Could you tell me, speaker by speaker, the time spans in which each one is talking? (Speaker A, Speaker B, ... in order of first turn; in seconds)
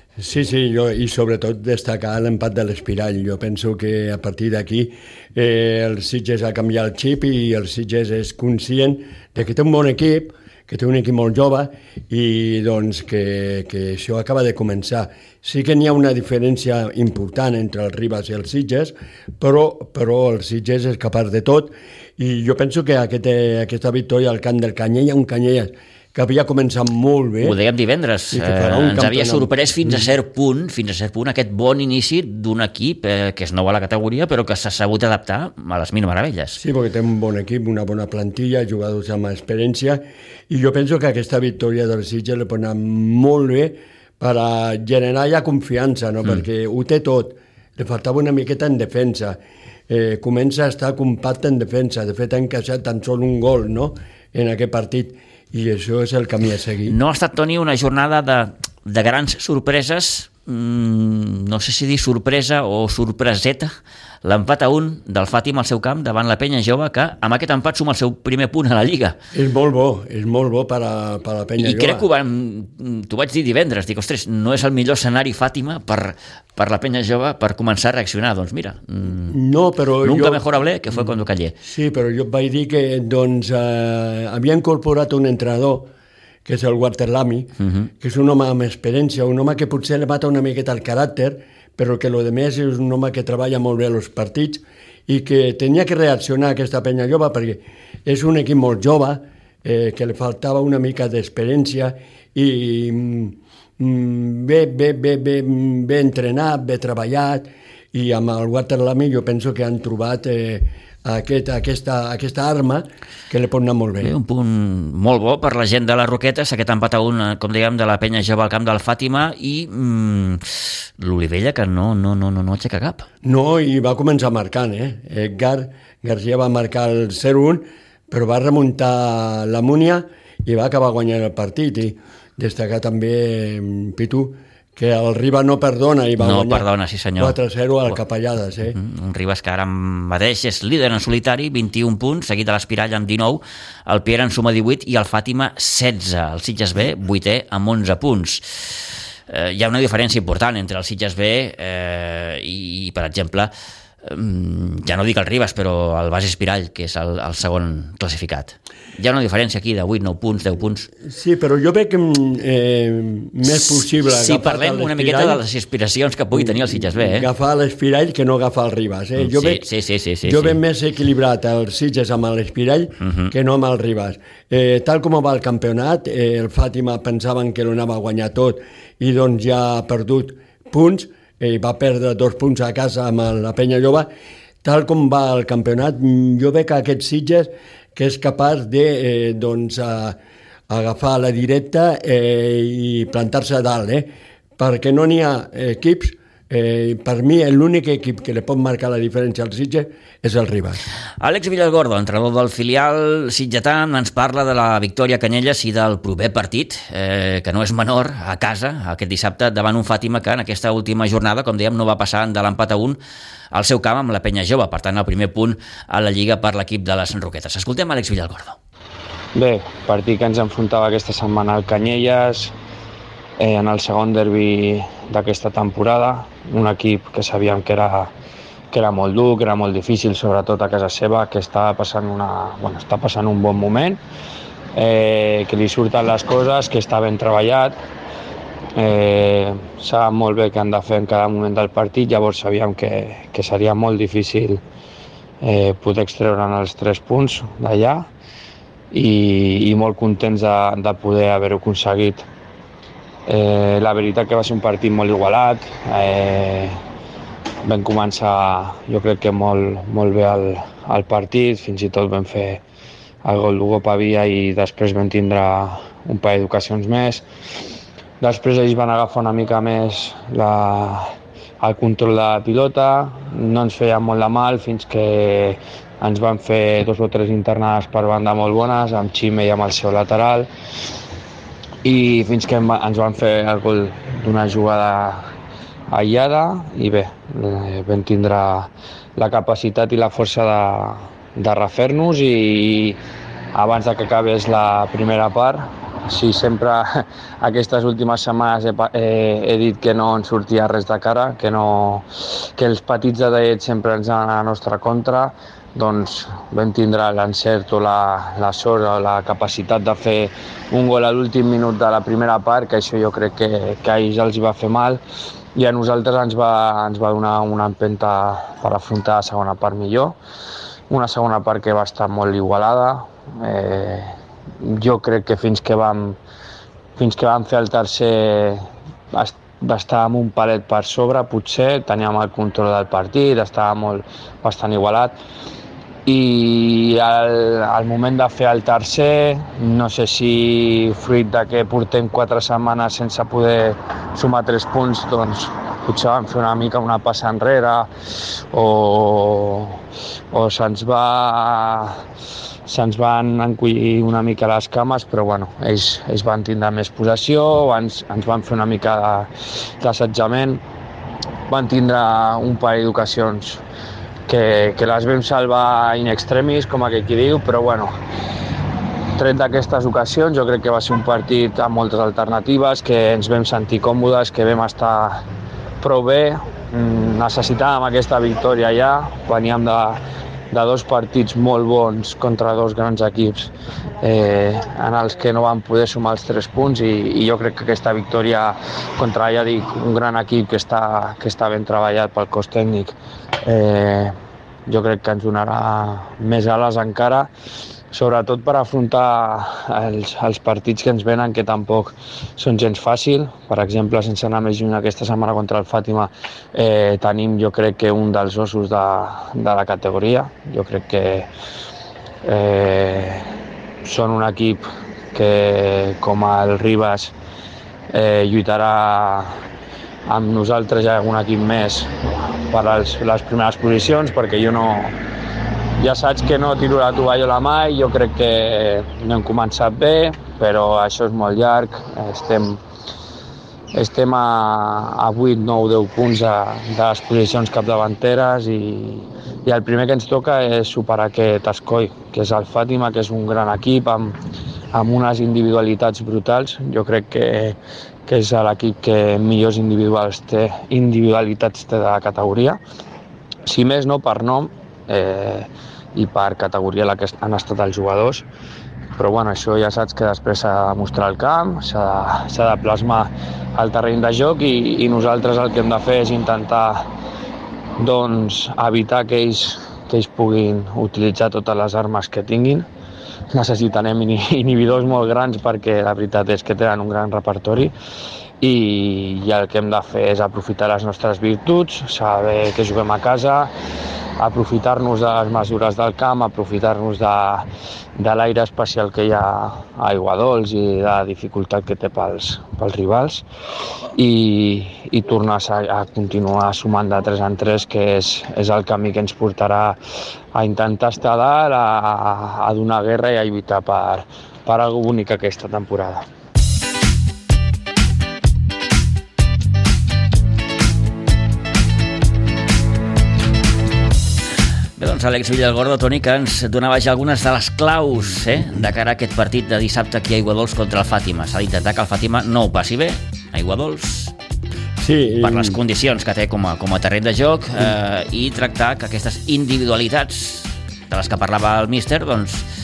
Speaker A: 0.2-27.6, 28.3-30.1, 36.5-57.0, 69.3-72.0, 79.3-81.1, 81.6-85.9, 86.4-114.1, 123.2-138.8, 161.0-165.4, 166.3-169.7, 170.2-184.1, 184.6-190.2, 190.7-200.8, 524.8-525.6
Speaker B: 27.4-36.6, 56.9-63.7, 64.2-69.2, 71.6-79.4, 80.0-81.5, 87.6-87.9, 114.0-123.1, 136.2-138.0, 138.6-153.5, 154.0-160.9, 164.0-167.3, 169.2-170.6, 173.0-173.3, 201.2-213.0, 213.5-218.6, 514.8-524.1, 525.2-532.4
Speaker C: 219.3-222.5, 223.4-228.1, 228.7-234.0, 234.7-237.8, 238.8-244.6, 245.4-248.1, 248.9-252.2, 253.3-256.8, 257.6-262.6, 263.2-267.2, 268.2-280.5, 281.8-285.3, 285.9-293.0, 293.5-315.0, 315.5-320.2, 320.9-326.2, 326.9-335.2, 336.1-347.9, 348.5-352.0, 352.6-360.6, 361.5-363.6, 364.3-367.9, 369.1-375.2, 375.8-394.1, 394.7-397.3, 397.9-411.3, 412.2-413.3, 413.8-417.1, 417.9-419.4, 420.1-425.0, 425.8-432.6, 433.7-444.2, 444.7-452.6, 453.4-458.2, 458.9-466.9, 467.8-472.7, 473.3-477.7, 478.4-483.5, 484.2-493.2, 493.9-499.8, 500.3-506.0